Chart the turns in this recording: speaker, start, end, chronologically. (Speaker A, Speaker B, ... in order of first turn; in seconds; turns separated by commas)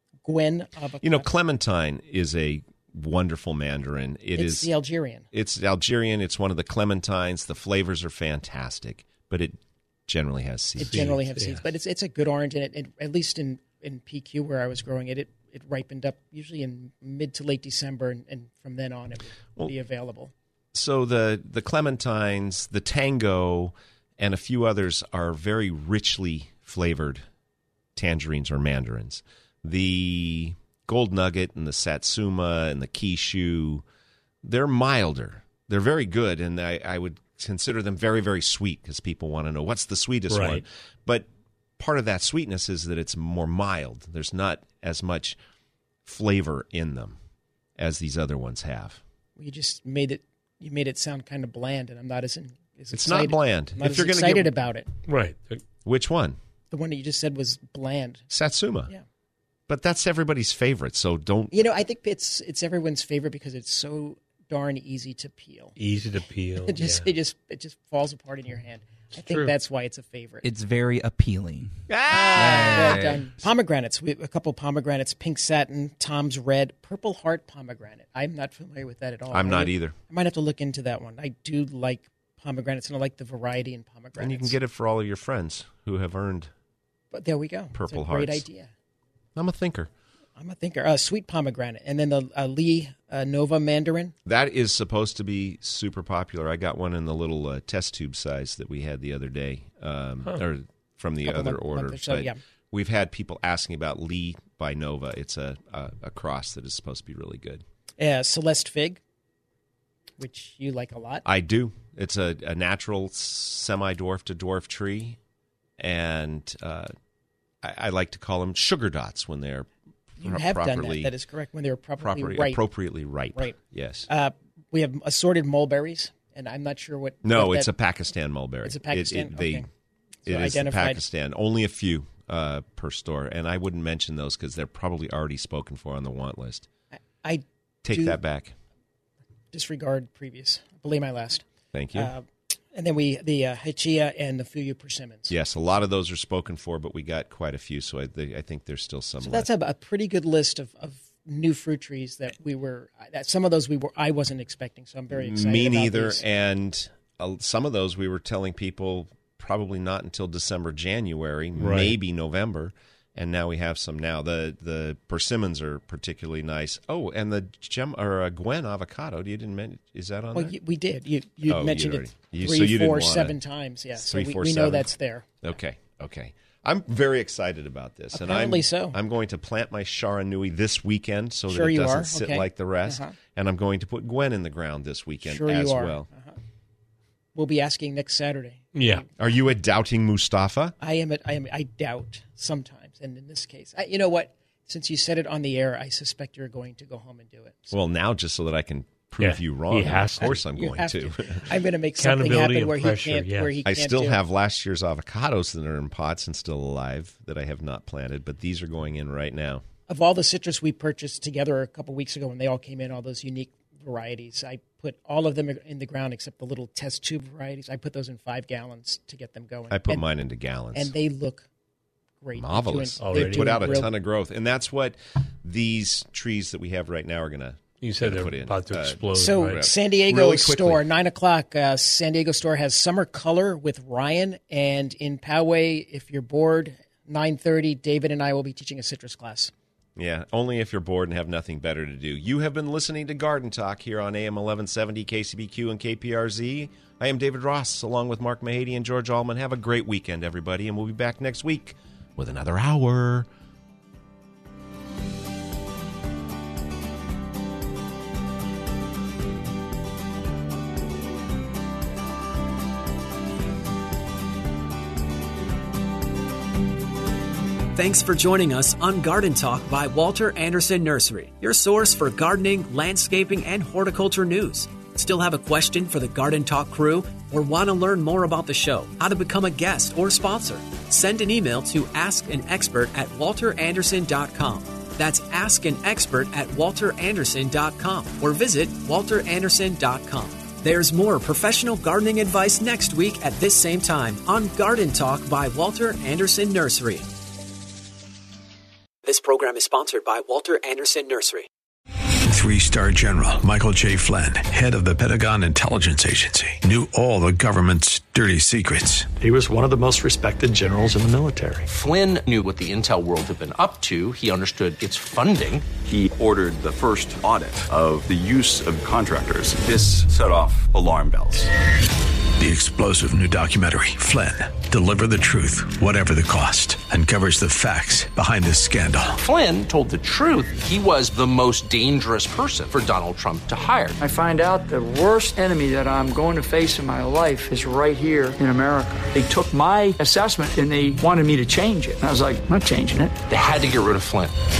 Speaker A: 0.2-1.3, Speaker B: 1.0-4.7, Speaker A: 4.4-5.3, Speaker B: 5.3-11.2, Speaker C: 10.8-11.7, Speaker A: 10.8-20.3, Speaker B: 20.7-27.2, Speaker B: 28.0-33.8, Speaker B: 34.4-41.3, Speaker C: 40.3-40.6, Speaker B: 41.8-45.4, Speaker B: 46.0-47.2, Speaker B: 47.8-49.0, Speaker A: 49.4-54.9, Speaker B: 52.9-54.5, Speaker C: 55.1-55.6, Speaker B: 55.9-56.4, Speaker A: 56.7-58.3, Speaker B: 58.3-58.9, Speaker B: 59.7-61.5, Speaker A: 61.5-65.7, Speaker C: 65.8-67.1, Speaker A: 66.7-70.5, Speaker C: 69.2-69.5, Speaker D: 70.4-73.2, Speaker B: 71.9-73.2, Speaker A: 72.1-84.6, Speaker B: 79.3-80.0, Speaker B: 84.2-86.5, Speaker A: 87.1-88.7, Speaker B: 87.7-88.5, Speaker B: 89.4-89.9, Speaker A: 90.4-94.2, Speaker B: 94.3-107.6, Speaker A: 101.2-102.4, Speaker A: 108.0-109.0, Speaker A: 110.2-111.2, Speaker B: 111.2-115.2, Speaker B: 115.8-116.9, Speaker B: 117.6-121.1, Speaker A: 120.2-122.6, Speaker B: 122.0-124.1, Speaker A: 124.1-127.7, Speaker B: 127.2-129.7, Speaker A: 128.6-129.7, Speaker A: 130.2-131.0, Speaker B: 130.3-136.7, Speaker A: 136.9-138.2, Speaker B: 137.8-138.6, Speaker A: 139.5-145.3, Speaker B: 141.7-142.1, Speaker B: 145.3-149.5, Speaker A: 149.2-156.2, Speaker B: 155.1-170.6, Speaker C: 161.6-161.9, Speaker A: 170.3-175.3, Speaker B: 171.4-173.4, Speaker B: 174.0-174.9, Speaker B: 175.4-186.1, Speaker A: 178.1-179.0, Speaker A: 181.5-183.1, Speaker A: 185.2-186.4, Speaker A: 187.4-189.1, Speaker C: 188.8-189.0, Speaker B: 189.2-190.8, Speaker A: 190.8-197.8, Speaker B: 197.7-201.5, Speaker C: 199.2-200.4, Speaker A: 200.2-204.2, Speaker C: 202.0-203.6, Speaker B: 203.7-209.7, Speaker A: 209.9-220.1, Speaker B: 219.7-220.9, Speaker A: 220.7-221.5, Speaker A: 222.2-223.9, Speaker B: 222.3-230.8, Speaker C: 223.0-223.9, Speaker C: 227.8-229.7, Speaker A: 229.1-239.5, Speaker B: 240.0-253.3, Speaker E: 267.7-297.1, Speaker E: 299.0-301.5, Speaker F: 302.2-309.1, Speaker G: 309.2-311.7, Speaker H: 311.7-315.7, Speaker I: 315.8-321.5, Speaker F: 322.4-329.2, Speaker H: 329.2-334.0, Speaker J: 334.0-343.1, Speaker H: 343.3-344.4